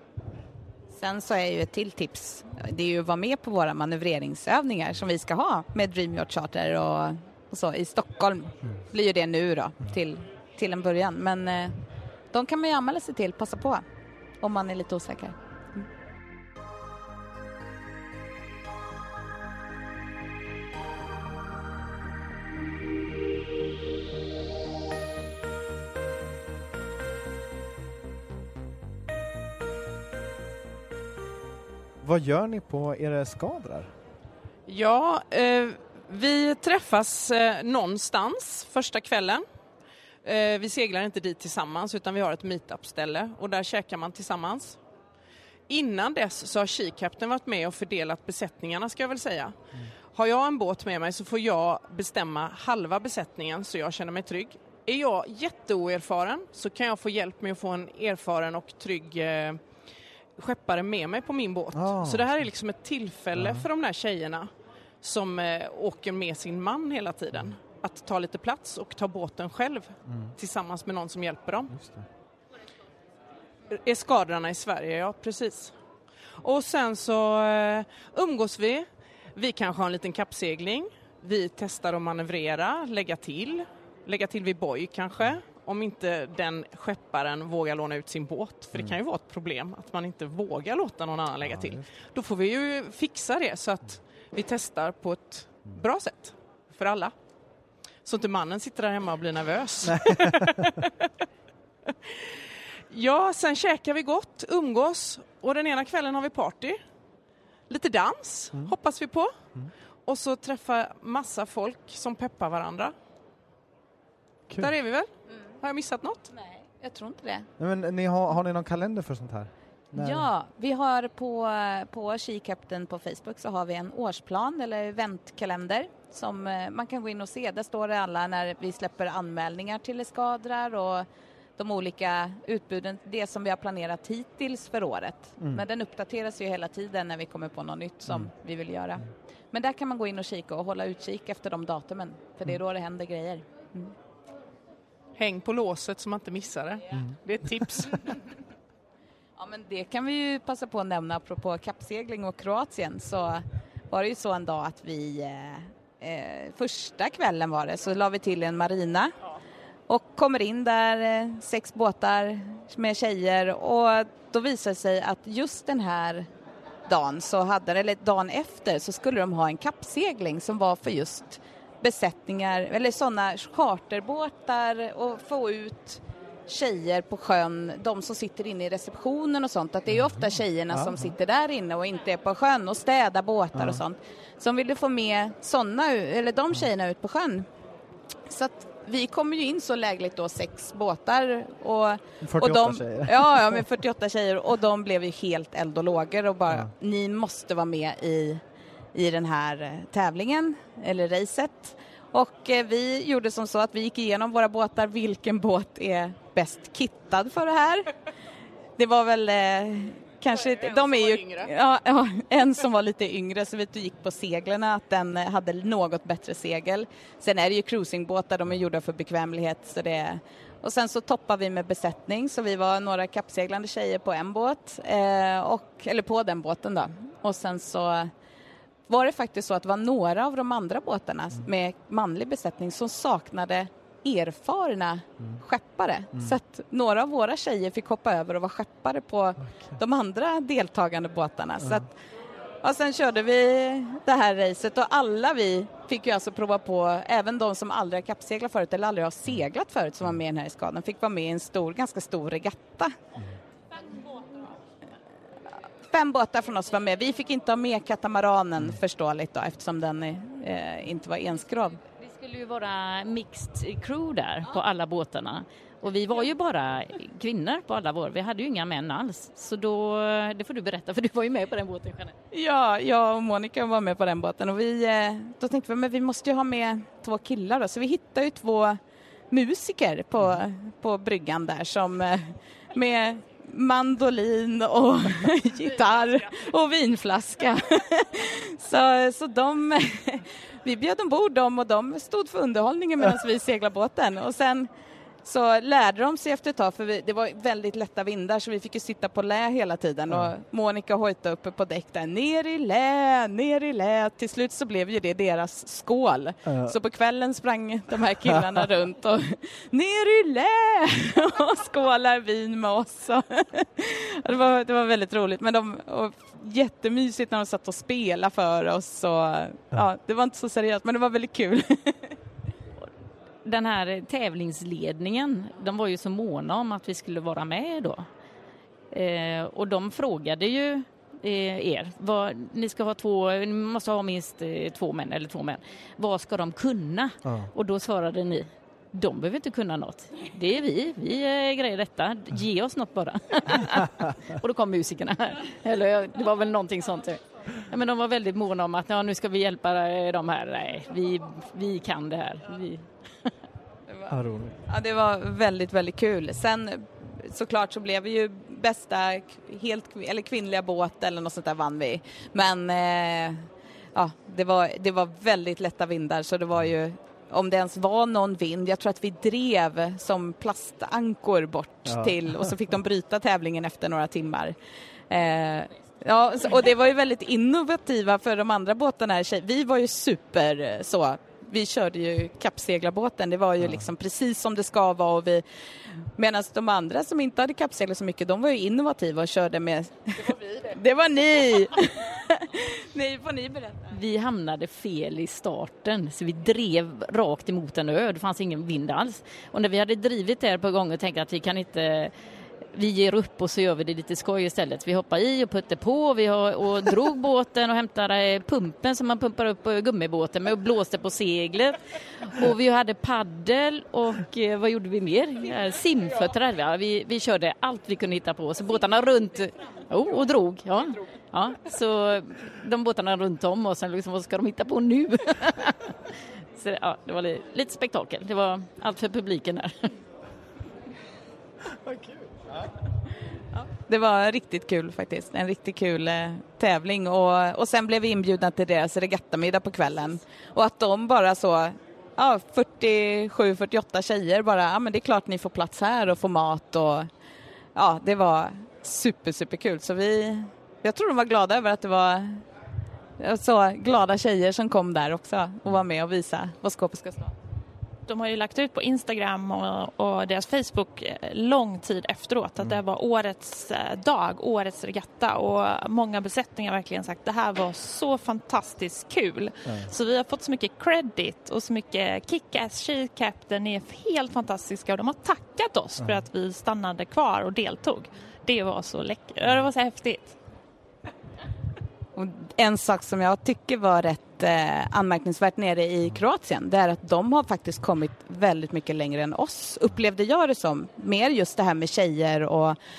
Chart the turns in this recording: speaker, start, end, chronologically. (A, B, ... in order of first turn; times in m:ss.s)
0:00.9-0:11.8 A
0:12.3-0:13.8 A
0:14.4-0:15.8 A
0:32.0-0:33.9 B
0:34.7-0:39.4 C
0:40.2-0:44.8 C
0:45.7-0:49.6 C
0:50.1-0:59.6 C
1:00.4-1:04.5 C
1:01.7-1:02.3 B
1:03.4-1:03.7 B
1:05.0-1:11.7 C
1:10.1-1:10.3 B
1:11.7-1:12.0 B
1:13.7-1:15.7 C
1:16.4-1:37.1 C
1:31.4-1:31.8 B
1:38.0-1:41.1 C
1:39.8-1:40.6 B
1:41.8-1:46.8 C
1:47.7-1:49.3 C
1:50.0-1:52.9 C
1:54.6-1:55.1 C
1:55.6-1:56.3 C
1:56.3-1:57.5 A
1:57.6-2:00.3 B
1:59.9-2:23.9 A
2:25.2-2:28.2 C
2:29.4-2:39.1 A
2:39.9-2:46.3 A
2:46.9-3:07.5 A
2:59.9-3:01.1 B
3:03.5-3:03.8 B
3:08.3-3:18.4 A
3:12.2-3:13.6 B
3:18.9-3:27.9 A
3:28.8-3:48.1 A
3:30.4-3:31.5 C
3:48.9-4:01.9 A
4:02.6-4:12.9 A
4:14.0-4:14.3 A
4:15.9-4:21.8 A
4:21.8-4:32.1 D
4:32.3-4:38.8 A
4:39.3-4:54.7 A
4:55.2-5:22.2 A
5:06.4-5:06.7 B
5:23.4-5:28.1 D
5:28.9-5:53.3 D
5:37.2-5:37.5 B
5:54.1-5:54.6 B
5:54.7-6:14.5 A
6:11.9-6:12.2 B
6:15.1-6:33.9 A
6:33.9-6:42.1 D
6:42.7-7:09.9 D
7:11.7-7:12.5 B
7:13.6-7:27.1 A
7:27.7-7:32.4 A
7:33.2-7:37.3 A
7:38.0-8:00.4 E
8:02.2-8:12.8 A